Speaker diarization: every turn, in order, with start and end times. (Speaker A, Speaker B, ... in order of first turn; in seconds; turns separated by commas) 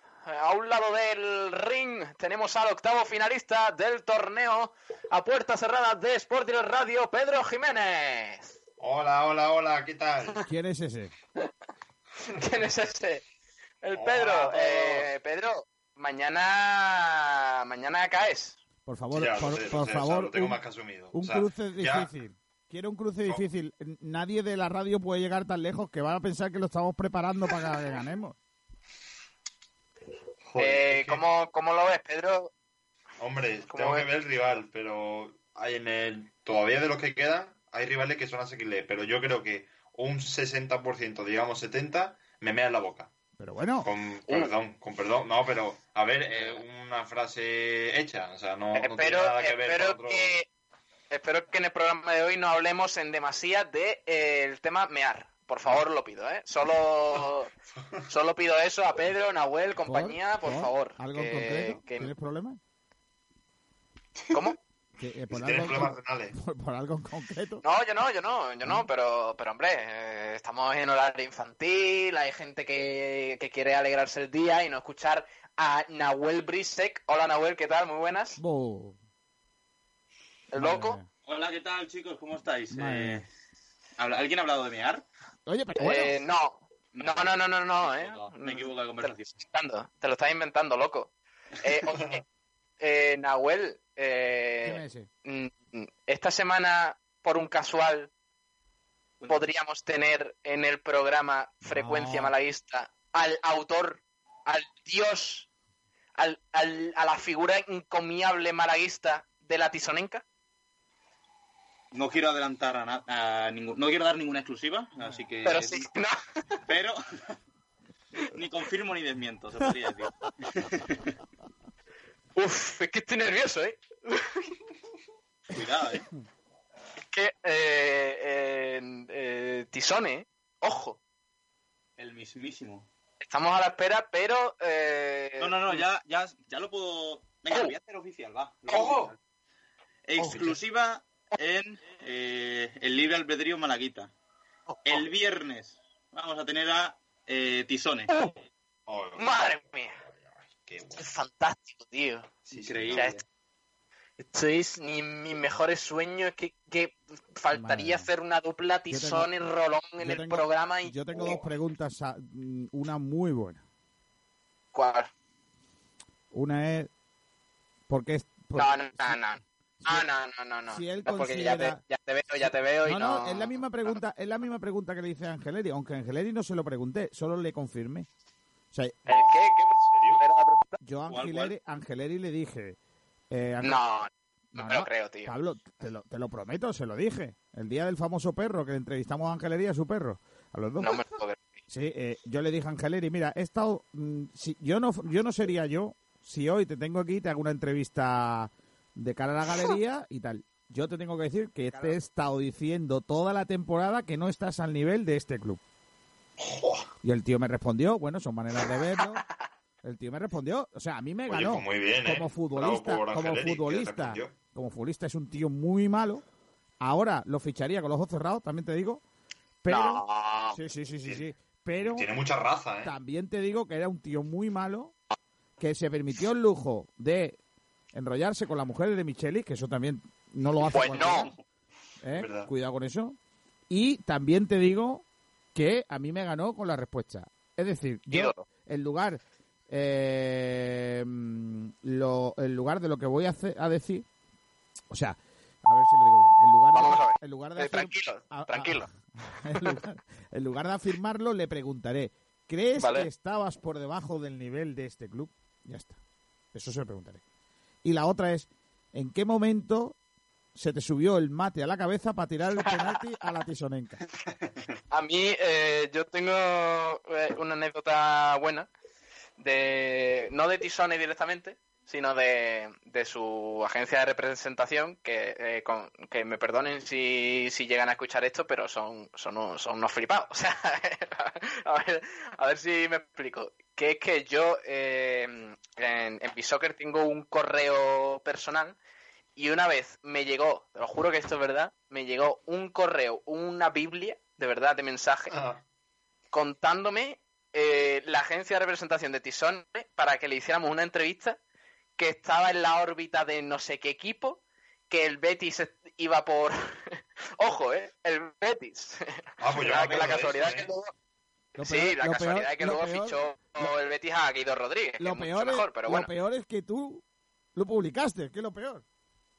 Speaker A: 0.3-8.5, Speaker B: 8.8-10.4, Speaker C: 10.5-11.1, Speaker A: 12.2-13.2, Speaker A: 13.8-18.6, Speaker B: 14.0-15.1, Speaker C: 18.9-20.6, Speaker B: 19.1-22.1, Speaker C: 21.1-28.4, Speaker B: 30.5-31.2, Speaker A: 30.6-32.5, Speaker B: 33.2-43.1, Speaker A: 33.7-34.1, Speaker C: 43.4-43.9, Speaker B: 43.8-50.4, Speaker A: 44.3-44.5, Speaker A: 48.8-50.5, Speaker A: 51.1-57.5, Speaker A: 58.1-62.1, Speaker C: 59.9-62.6, Speaker A: 64.3-64.6, Speaker C: 65.0-67.6, Speaker B: 65.3-66.4, Speaker A: 67.6-78.4, Speaker C: 78.4-79.0, Speaker A: 80.5-81.0, Speaker C: 80.5-81.1, Speaker D: 81.2-83.3, Speaker C: 82.7-83.2, Speaker D: 84.0-85.0, Speaker C: 85.5-86.2, Speaker A: 85.8-92.2, Speaker D: 86.9-89.3, Speaker B: 91.9-92.2, Speaker A: 92.8-98.1, Speaker C: 94.6-95.1, Speaker A: 99.3-105.5, Speaker C: 101.7-102.3, Speaker A: 106.2-110.2, Speaker D: 111.9-115.9, Speaker A: 115.5-116.2, Speaker D: 116.7-117.3, Speaker D: 118.3-121.2, Speaker A: 122.4-124.3, Speaker D: 125.5-126.1, Speaker A: 127.1-131.0, Speaker D: 132.0-132.9, Speaker A: 133.2-135.8, Speaker D: 135.4-139.2, Speaker B: 138.7-139.1, Speaker D: 140.1-144.1, Speaker A: 140.2-140.5, Speaker A: 144.7-145.1, Speaker D: 144.9-148.1, Speaker B: 148.9-149.4, Speaker A: 149.2-149.9, Speaker B: 150.7-151.1, Speaker A: 151.0-152.3, Speaker B: 152.5-153.1, Speaker D: 152.5-153.2, Speaker A: 152.9-153.2, Speaker A: 154.2-161.4, Speaker C: 157.5-158.1, Speaker C: 158.9-159.3, Speaker C: 160.0-163.6, Speaker A: 164.7-165.1, Speaker C: 166.3-166.9, Speaker C: 167.9-169.2, Speaker A: 168.6-173.6, Speaker C: 169.8-170.1, Speaker C: 170.7-171.8, Speaker C: 172.8-178.1, Speaker C: 178.7-179.1, Speaker A: 179.1-180.7, Speaker B: 179.1-180.2, Speaker C: 180.8-182.8, Speaker D: 181.1-181.5, Speaker C: 183.3-183.8, Speaker A: 183.6-185.3, Speaker C: 184.5-191.0, Speaker A: 190.8-191.5, Speaker C: 191.7-205.6, Speaker B: 206.4-206.7, Speaker C: 207.0-209.2, Speaker C: 209.8-216.2, Speaker B: 211.3-214.3, Speaker C: 216.8-219.0, Speaker C: 219.6-222.1, Speaker A: 219.7-220.6, Speaker B: 221.8-222.9, Speaker C: 222.8-224.9, Speaker C: 225.6-227.4, Speaker C: 227.9-231.3, Speaker A: 230.7-231.3, Speaker C: 232.0-233.2, Speaker B: 232.1-232.5, Speaker C: 233.7-244.1, Speaker A: 238.1-238.4, Speaker C: 244.9-256.0, Speaker A: 246.7-248.9, Speaker A: 252.8-253.1, Speaker C: 256.5-257.2, Speaker C: 257.8-260.0, Speaker C: 260.6-264.0, Speaker A: 262.6-263.0, Speaker A: 264.9-268.7, Speaker A: 269.4-288.8, Speaker A: 289.4-295.3, Speaker B: 295.3-295.6, Speaker A: 296.3-301.4, Speaker A: 302.0-310.9, Speaker B: 309.4-310.7, Speaker A: 311.6-316.1, Speaker C: 311.6-313.7, Speaker C: 315.0-317.0, Speaker C: 317.6-318.8